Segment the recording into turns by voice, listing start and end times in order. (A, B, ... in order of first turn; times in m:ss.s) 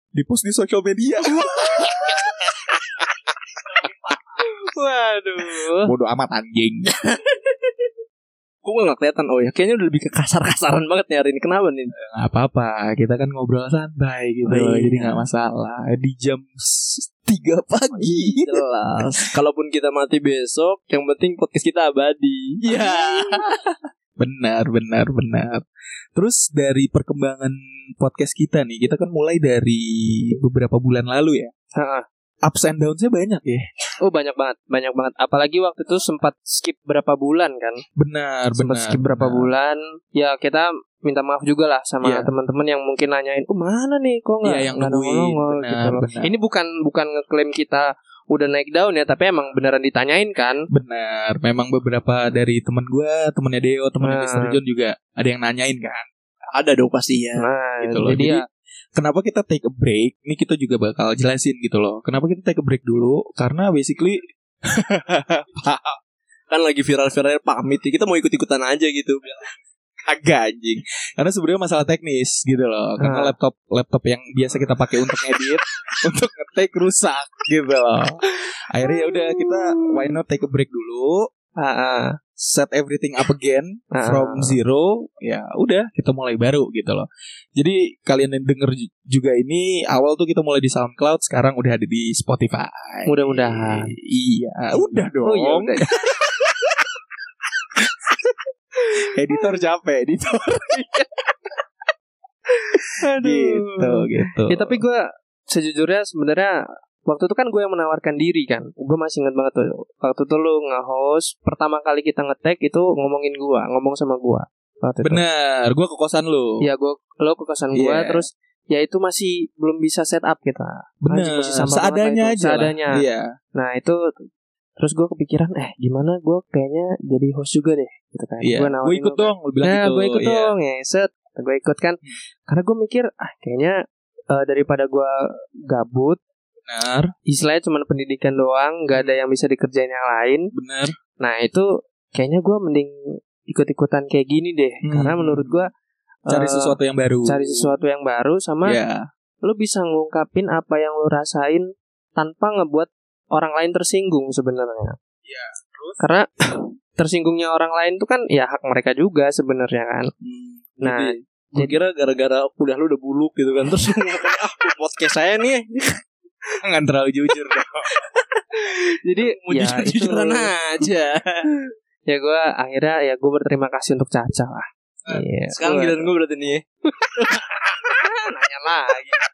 0:00.2-0:02.0 A
0:01.5-0:02.0 B
0:04.4-0:05.9 B
0:05.8-0:06.9 A
0:07.2-0:07.5 C
0:08.6-0:11.9 C
0:12.0-0:18.6 A
0:14.5-0:15.2 C
0:17.9-0:23.5 C
0:22.6-0:23.4 A
0:24.2-0:31.5 A
0:31.8-0:32.0 B
0:32.5-0:33.6 A
0:34.0-0:37.8 B
0:38.0-0:39.5 A
0:38.6-0:50.6 B
0:42.0-0:42.3 A
0:44.4-0:46.3 A
0:50.7-0:56.1 A
0:54.0-0:54.6 B
0:56.5-0:57.4 C
0:57.4-0:58.4 B
0:57.8-0:58.4 A
0:59.0-1:06.0 A
1:06.5-1:09.5 C
1:10.1-1:21.3 A
1:13.0-1:13.3 B
1:18.9-1:20.2 B
1:21.6-1:22.1 B
1:22.4-1:35.9 A
1:24.0-1:24.6 B
1:33.1-1:33.8 B
1:35.2-1:35.9 B
1:38.0-1:38.3 A
1:39.1-1:40.8 A
1:40.7-1:41.0 B
1:42.5-1:46.5 B
1:43.1-1:44.8 A
1:47.0-1:55.2 B
1:55.0-1:56.6 A
1:56.6-2:03.0 B
1:57.8-1:58.3 A
2:01.0-2:03.3 A
2:03.6-2:04.0 B
2:04.8-2:13.8 B
2:08.4-2:10.5 A
2:14.3-2:15.1 B
2:15.7-2:16.2 B
2:16.7-2:17.1 A
2:17.3-2:20.5 B
2:18.9-2:19.2 A
2:20.5-2:20.9 A
2:21.2-2:22.9 B
2:23.5-2:25.7 B
2:24.8-2:25.6 A
2:26.3-2:26.7 B
2:26.3-2:27.7 A
2:27.3-2:28.8 B
2:28.6-2:29.0 A
2:29.5-2:31.6 B
2:32.2-2:35.0 B
2:35.2-2:36.0 A
2:36.0-2:40.1 B
2:40.2-2:46.0 C
2:40.8-2:41.7 B
2:46.6-2:47.8 A
2:49.1-2:50.5 B
2:49.1-2:51.4 C
2:52.1-2:56.1 B
2:55.5-2:56.6 C
2:57.2-2:59.1 B